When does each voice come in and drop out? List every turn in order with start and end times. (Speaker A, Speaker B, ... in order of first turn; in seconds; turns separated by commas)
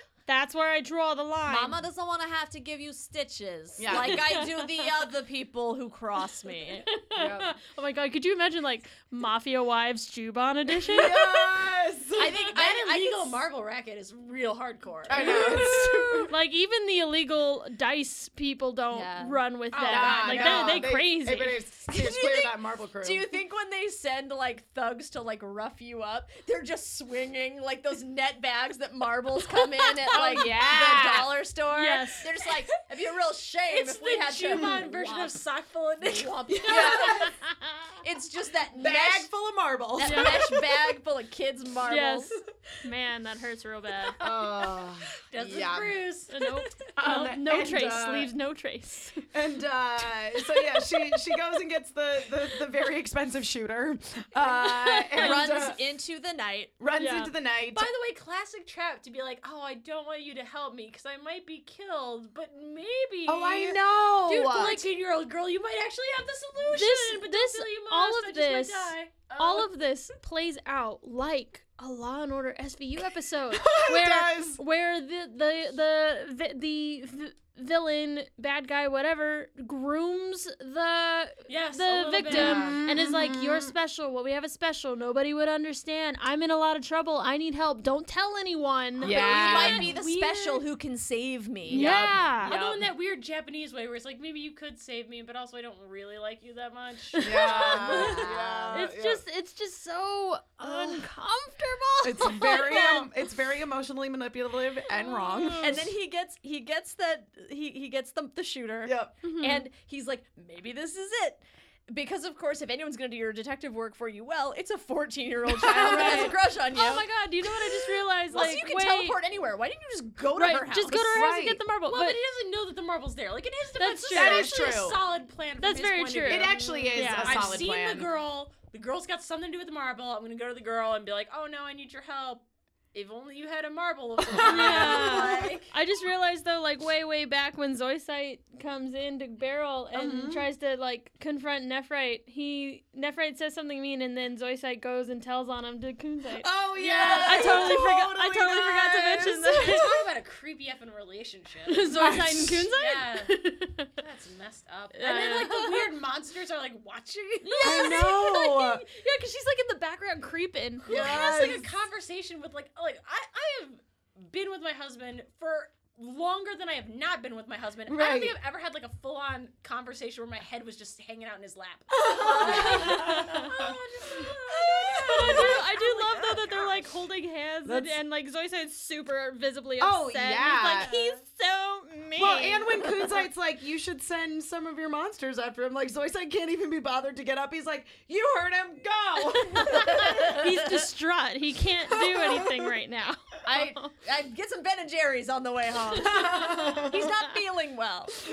Speaker A: 0.3-1.8, Speaker B: 1.4-6.9, Speaker C: 3.8-4.4, Speaker A: 4.1-4.7, Speaker A: 6.9-11.6, Speaker C: 7.2-7.5, Speaker C: 10.9-12.3, Speaker B: 12.2-13.4, Speaker D: 12.3-16.3, Speaker C: 15.1-16.3, Speaker A: 15.2-21.6, Speaker B: 18.9-20.7, Speaker D: 19.7-20.8, Speaker C: 19.8-23.3, Speaker B: 21.9-35.4, Speaker C: 30.1-31.4, Speaker A: 30.1-31.0, Speaker A: 31.7-32.3, Speaker D: 33.7-36.5, Speaker B: 36.0-37.4, Speaker C: 36.5-37.3, Speaker A: 36.7-37.8, Speaker B: 38.0-39.3, Speaker C: 38.8-40.9, Speaker B: 40.0-42.3, Speaker A: 40.0-40.5, Speaker A: 41.8-44.2, Speaker C: 44.2-46.0, Speaker D: 45.3-46.8, Speaker A: 46.3-49.2, Speaker C: 46.9-48.3, Speaker C: 49.3-55.8, Speaker A: 54.4-55.5, Speaker B: 55.1-56.7, Speaker C: 56.8-57.9, Speaker A: 56.9-57.3, Speaker D: 57.7-69.7, Speaker C: 63.3-64.8, Speaker A: 66.7-90.0, Speaker C: 73.6-74.6, Speaker D: 81.5-82.8, Speaker C: 82.3-83.7, Speaker C: 89.0-90.0, Speaker D: 89.0-90.6, Speaker B: 89.0-92.6, Speaker A: 91.7-92.6, Speaker C: 91.7-92.8, Speaker D: 92.4-98.2, Speaker A: 97.2-98.2, Speaker C: 97.2-99.2, Speaker B: 97.6-98.8, Speaker A: 98.7-103.1, Speaker C: 100.6-101.1, Speaker C: 102.0-105.8, Speaker A: 104.9-105.8, Speaker B: 105.6-121.2, Speaker C: 108.8-109.1, Speaker A: 109.2-109.6, Speaker A: 115.6-119.2, Speaker D: 116.0-116.3, Speaker A: 120.4-122.2, Speaker C: 121.1-121.6, Speaker D: 121.9-135.7, Speaker A: 123.8-124.5, Speaker C: 124.1-125.0, Speaker A: 125.6-127.7, Speaker C: 126.3-128.1, Speaker C: 134.3-134.7, Speaker A: 134.3-149.9, Speaker C: 139.9-140.5, Speaker C: 146.4-150.1, Speaker D: 147.0-147.7, Speaker D: 149.5-158.1, Speaker A: 151.7-154.0, Speaker C: 152.0-152.7, Speaker A: 154.9-155.9, Speaker A: 157.4-161.2, Speaker C: 157.6-158.8, Speaker D: 160.8-176.9, Speaker C: 160.9-161.7, Speaker C: 167.9-168.3, Speaker C: 171.9-175.6, Speaker A: 172.4-173.7, Speaker A: 175.1-183.2, Speaker C: 177.7-178.0, Speaker C: 179.8-180.9, Speaker D: 180.6-181.2, Speaker C: 182.2-190.4, Speaker A: 189.3-193.9, Speaker B: 189.9-190.8, Speaker C: 192.1-192.6, Speaker B: 193.4-198.2, Speaker C: 196.0-197.0